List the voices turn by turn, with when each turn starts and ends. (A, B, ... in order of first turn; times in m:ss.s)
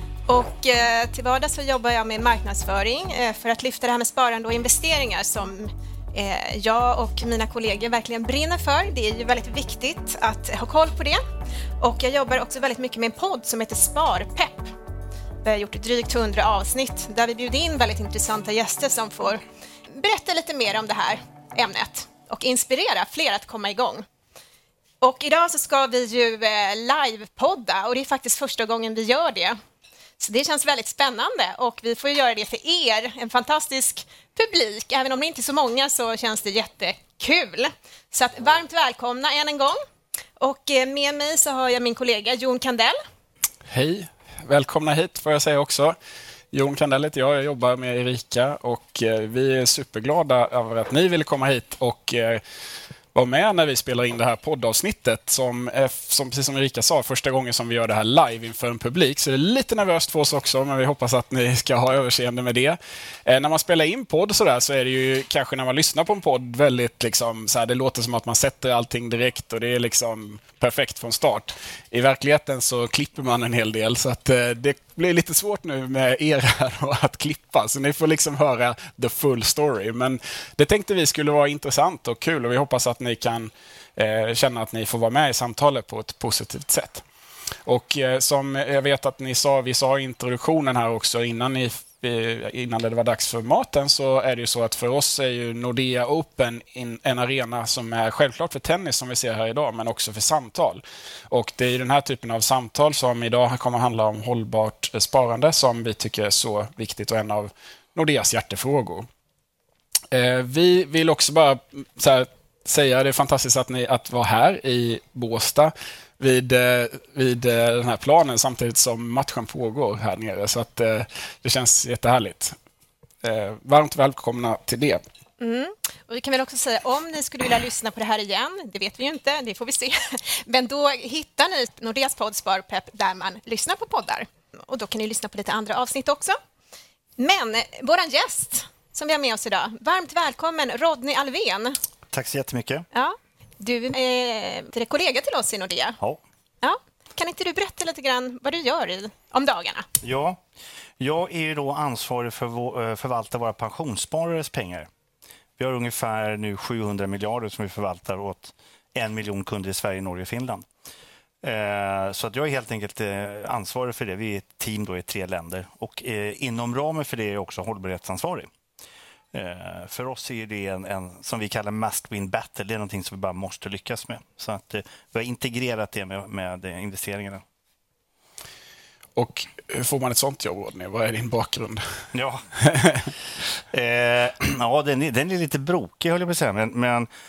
0:00.3-0:11.2 A
0:11.8-0:14.8 A
0:15.4-0:24.0 A
0:25.0-0:29.6 A
0:30.2-0:39.8 A
0:40.4-0:43.0 A
0:43.7-0:46.0 B
0:46.5-0:52.4 B
0:53.1-1:27.0 B
1:27.6-1:49.1 B
1:50.1-2:02.6 B
2:03.2-2:05.0 B
2:05.4-2:16.4 A
2:17.2-2:21.8 A
2:22.1-2:22.8 C
2:22.9-2:26.0 A
2:26.6-2:29.8 A
2:30.0-2:30.4 C
2:31.0-2:34.9 C
2:35.6-2:40.6 C
2:41.4-2:48.5 C
2:49.3-2:57.4 C
2:59.2-3:02.0 B
3:02.1-3:02.5 C
3:02.6-3:03.1 B
3:03.6-3:07.1 C